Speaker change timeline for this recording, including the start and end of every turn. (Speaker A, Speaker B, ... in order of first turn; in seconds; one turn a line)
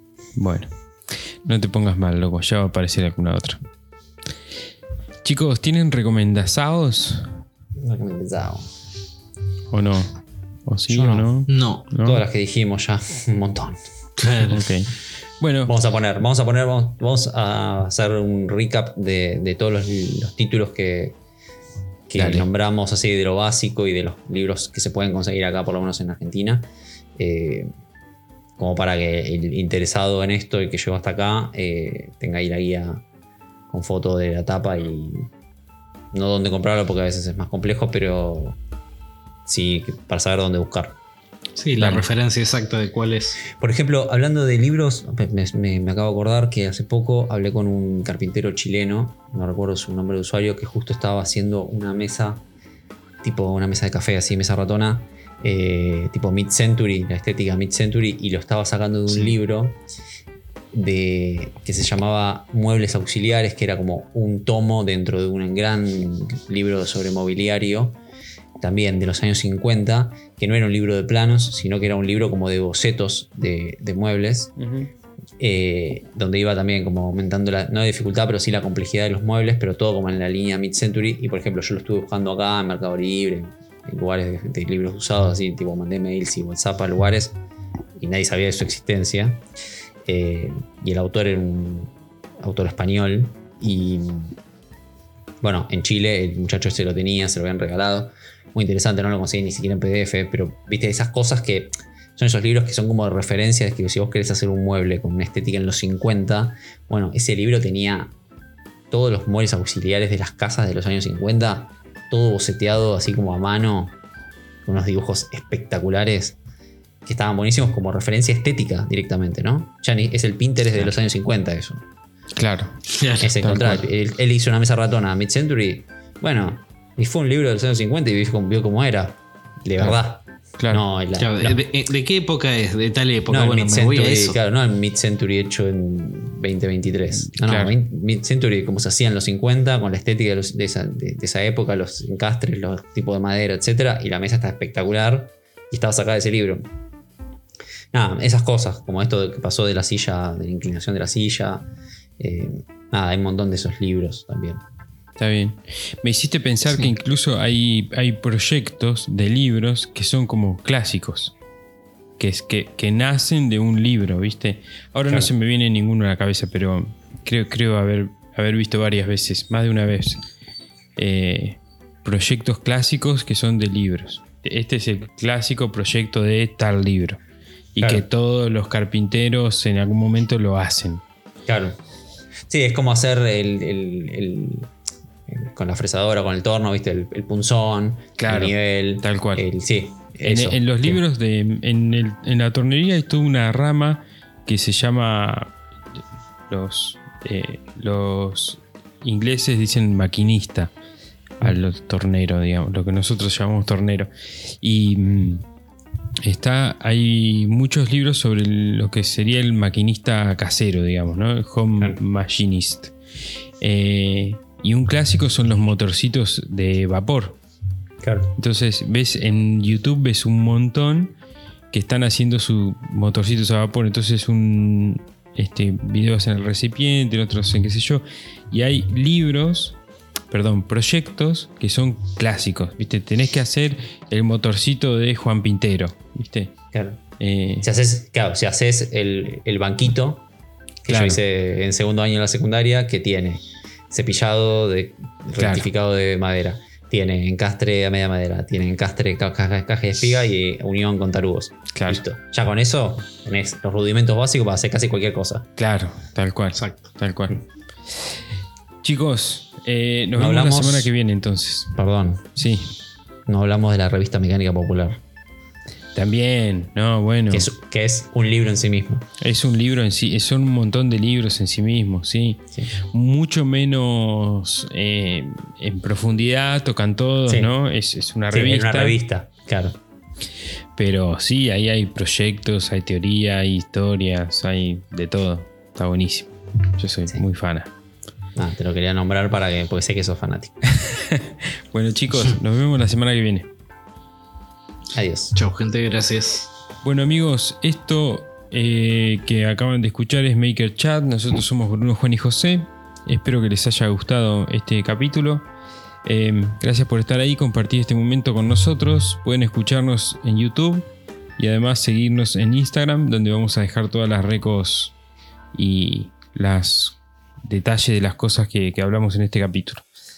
Speaker A: 0.4-0.7
Speaker A: 1.2-3.6
Speaker A: 5.2-7.4
Speaker B: 7.8-8.7
Speaker A: 9.7-12.2
Speaker B: 10.9-11.3
Speaker C: 11.5-11.9
Speaker B: 12.0-13.8
Speaker C: 14.2-14.6
Speaker A: 14.5-15.7
Speaker B: 15.7-21.2
Speaker B: 22.1-27.7
Speaker A: 22.1-22.4
Speaker B: 28.6-33.0
Speaker B: 33.7-35.3
Speaker B: 36.1-38.6
Speaker B: 39.5-41.0
Speaker C: 41.6-43.4
Speaker A: 41.8-42.1
Speaker B: 43.5-52.4
Speaker B: 53.2-59.8
Speaker C: 59.1-59.3
Speaker B: 60.7-68.0
Speaker B: 68.6-74.5
Speaker A: 74.6-74.9
Speaker B: 75.4-87.4
Speaker B: 88.0-89.4
Speaker B: 90.0-94.3
Speaker B: 95.4-108.1
Speaker B: 108.9-113.9
Speaker B: 114.6-116.4
Speaker B: 117.0-121.8
Speaker A: 122.3-122.8
Speaker C: 122.9-123.4
Speaker B: 123.2-131.6
Speaker A: 123.4-123.8
Speaker A: 130.6-130.8
Speaker C: 131.1-134.4
Speaker B: 133.3-146.7
Speaker A: 137.3-137.7
Speaker B: 147.9-151.6
Speaker B: 152.2-154.6
Speaker A: 155.2-161.3
Speaker A: 162.2-170.3
Speaker A: 170.9-177.2
Speaker A: 177.7-181.0
Speaker B: 177.8-178.0
Speaker B: 181.4-181.8
Speaker B: 182.5-184.7
Speaker B: 185.3-191.0
Speaker A: 188.2-189.4
Speaker A: 190.2-195.5
Speaker A: 196.5-200.7
Speaker A: 201.4-205.4
Speaker A: 206.2-212.9
Speaker A: 213.6-217.4
Speaker B: 218.0-218.3
Speaker A: 218.3-221.1
Speaker A: 221.7-229.8
Speaker A: 230.3-236.5
Speaker B: 236.7-237.0
Speaker A: 237.2-237.7
Speaker B: 237.6-240.2
Speaker B: 240.8-255.5
Speaker A: 240.9-241.2
Speaker A: 245.4-245.7
Speaker A: 251.7-252.0
Speaker A: 255.6-257.4
Speaker A: 258.8-261.7
Speaker B: 260.1-260.9
Speaker B: 261.7-262.3
Speaker A: 262.4-262.7
Speaker B: 263.3-265.0
Speaker A: 265.9-267.5
Speaker B: 267.3-269.0
Speaker A: 269.2-279.0
Speaker B: 278.3-279.8
Speaker A: 280.8-287.7
Speaker B: 288.4-290.6
Speaker A: 290.7-293.5
Speaker B: 294.9-295.3
Speaker C: 295.3-296.5
Speaker A: 296.8-305.5
Speaker A: 306.0-314.9
Speaker A: 315.5-319.8